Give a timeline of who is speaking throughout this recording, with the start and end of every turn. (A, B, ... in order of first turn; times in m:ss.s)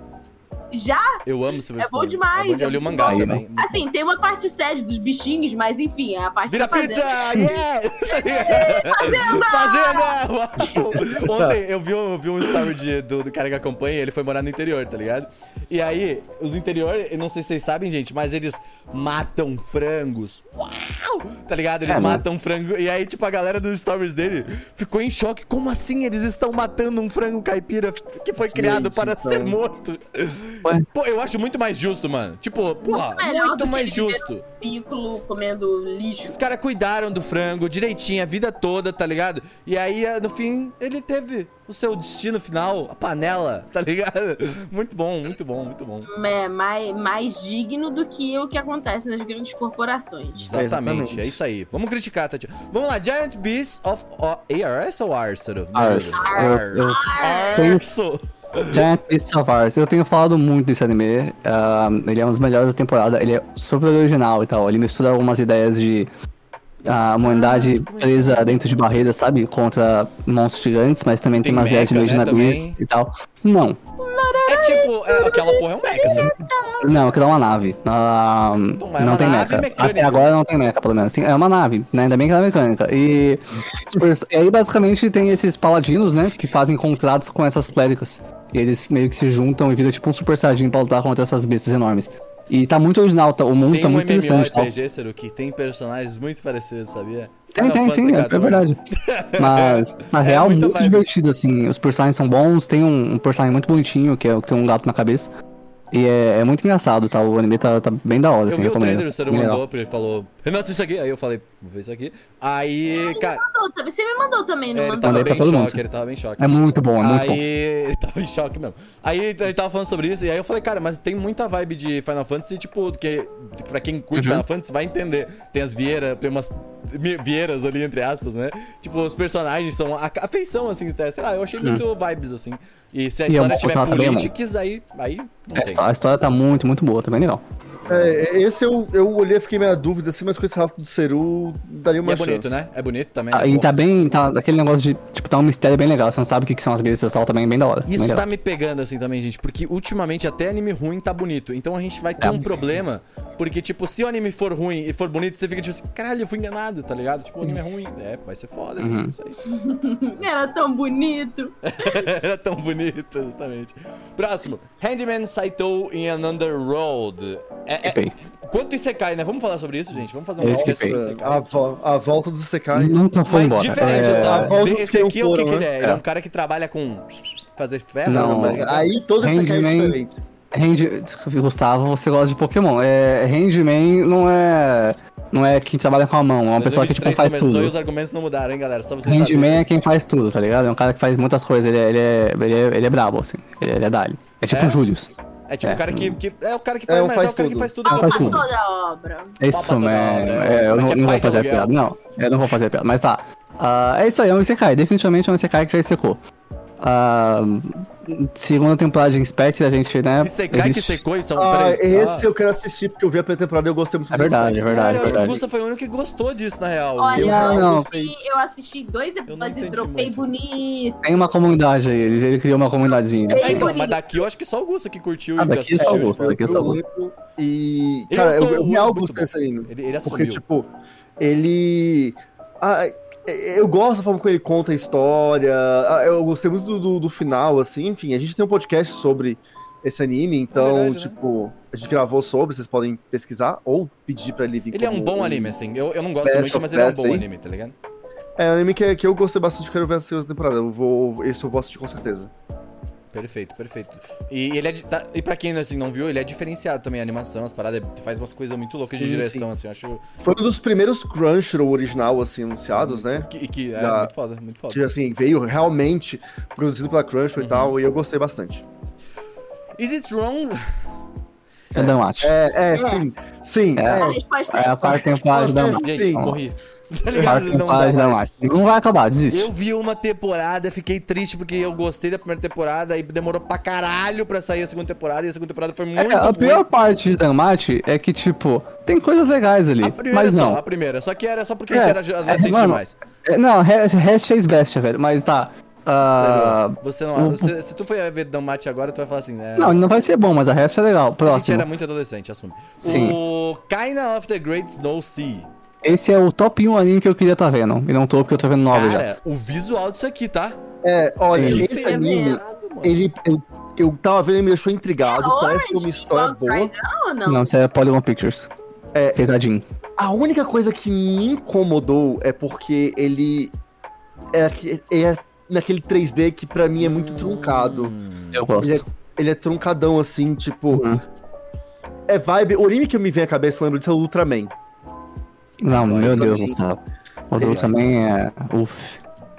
0:00.7-0:01.2 A
0:01.2-0:03.9 B
0:01.8-0:07.5 A
0:03.1-0:03.4 C
0:06.5-0:34.4 B
0:08.1-0:10.2 A
0:11.0-0:11.6 D
0:21.9-0:22.2 C
0:28.5-0:29.6 D
0:32.8-0:36.4 A
0:36.2-0:46.1 B
0:46.1-0:50.5 A
0:50.4-0:58.9 B
0:50.5-0:51.4 D
0:55.8-0:57.0 C
0:56.1-0:57.8 A
0:57.6-0:57.8 C
0:58.7-1:06.1 C
1:06.8-1:13.8 C
1:07.2-1:08.6 B
1:11.4-1:12.8 B
1:14.0-1:17.0 A
1:14.5-1:16.3 B
1:16.8-1:34.7 C
1:18.8-1:20.3 B
1:33.7-1:41.1 B
1:37.5-1:38.8 C
1:39.4-1:45.3 C
1:45.9-1:49.6 C
1:48.5-1:53.4 B
1:52.9-1:55.4 A
1:54.7-2:15.9 B
1:55.0-1:55.8 C
1:56.4-1:57.4 C
2:04.2-2:04.4 C
2:13.3-2:14.3 C
2:15.6-2:17.4 C
2:17.9-2:22.6 D
2:22.0-2:23.7 B
2:23.3-2:28.2 C
2:27.9-2:39.4 B
2:32.2-2:32.5 C
2:38.8-2:39.1 C
2:39.4-2:42.0 A
2:41.6-2:51.6 B
2:47.8-2:48.1 C
2:50.4-2:51.0 C
2:50.4-2:53.0 D
2:52.7-2:54.6 C
2:53.2-2:58.9 B
2:53.8-2:55.7 D
2:58.1-2:58.7 C
2:58.1-3:00.2 D
2:59.2-3:00.0 C
3:00.5-3:07.7 C
3:06.6-3:09.7 B
3:09.1-3:15.1 C
3:14.5-3:14.8 B
3:15.5-3:18.5 B
3:15.6-3:16.2 C
3:16.9-3:17.7 D
3:17.8-3:19.4 A
3:17.9-3:18.5 C
3:19.4-3:26.2 C
3:19.5-3:21.7 B
3:26.8-3:31.0 C
3:30.2-3:32.3 B
3:31.4-3:35.4 D
3:34.1-3:35.4 C
3:34.7-3:37.6 B
3:37.0-3:41.0 A
3:37.2-3:37.9 C
3:37.2-3:38.1 D
3:39.3-3:40.3 B
3:41.0-3:43.7 C
3:43.3-3:44.2 A
3:43.4-3:46.8 B
3:45.4-3:46.8 C
3:45.8-4:05.6 D
3:48.1-3:50.4 B
4:00.5-4:01.2 B
4:04.7-4:07.8 B
4:06.2-4:07.3 D
4:08.4-4:12.3 D
4:13.1-4:20.0 B
4:18.9-4:19.5 D
4:20.2-4:24.1 D
4:22.7-4:24.9 B
4:24.7-4:28.6 D
4:27.4-4:27.8 B
4:29.8-4:30.7 B
4:31.7-4:34.2 D
4:31.8-4:32.3 C
4:32.7-4:33.0 A
4:33.8-4:36.4 C
4:33.9-4:35.2 A
4:34.8-4:36.3 D
4:35.7-4:38.3 B
4:37.1-4:37.4 D
4:37.2-4:39.5 C
4:39.3-4:46.7 B
4:46.0-4:50.6 C
4:49.8-4:53.0 B
4:51.7-4:57.5 C
4:56.1-4:59.8 B
4:59.6-5:01.7 C
5:01.2-5:05.5 B
5:02.8-5:03.2 C
5:05.8-5:09.1 C
5:08.7-5:10.6 B
5:10.8-5:16.7 D
5:11.3-5:13.0 B
5:11.4-5:11.7 C
5:11.4-5:12.4 A
5:15.0-5:17.5 A
5:17.3-5:18.5 C
5:18.9-5:19.2 D
5:19.2-5:19.6 C
5:20.0-5:23.6 D
5:24.3-5:27.9 D
5:26.8-5:28.5 B
5:28.3-5:28.8 C
5:28.6-5:30.9 D
5:30.7-5:31.0 C
5:32.1-5:34.5 D
5:35.6-5:39.0 C
5:35.7-5:36.4 B
5:36.0-5:36.6 D
5:37.4-5:37.7 D
5:37.4-5:37.8 B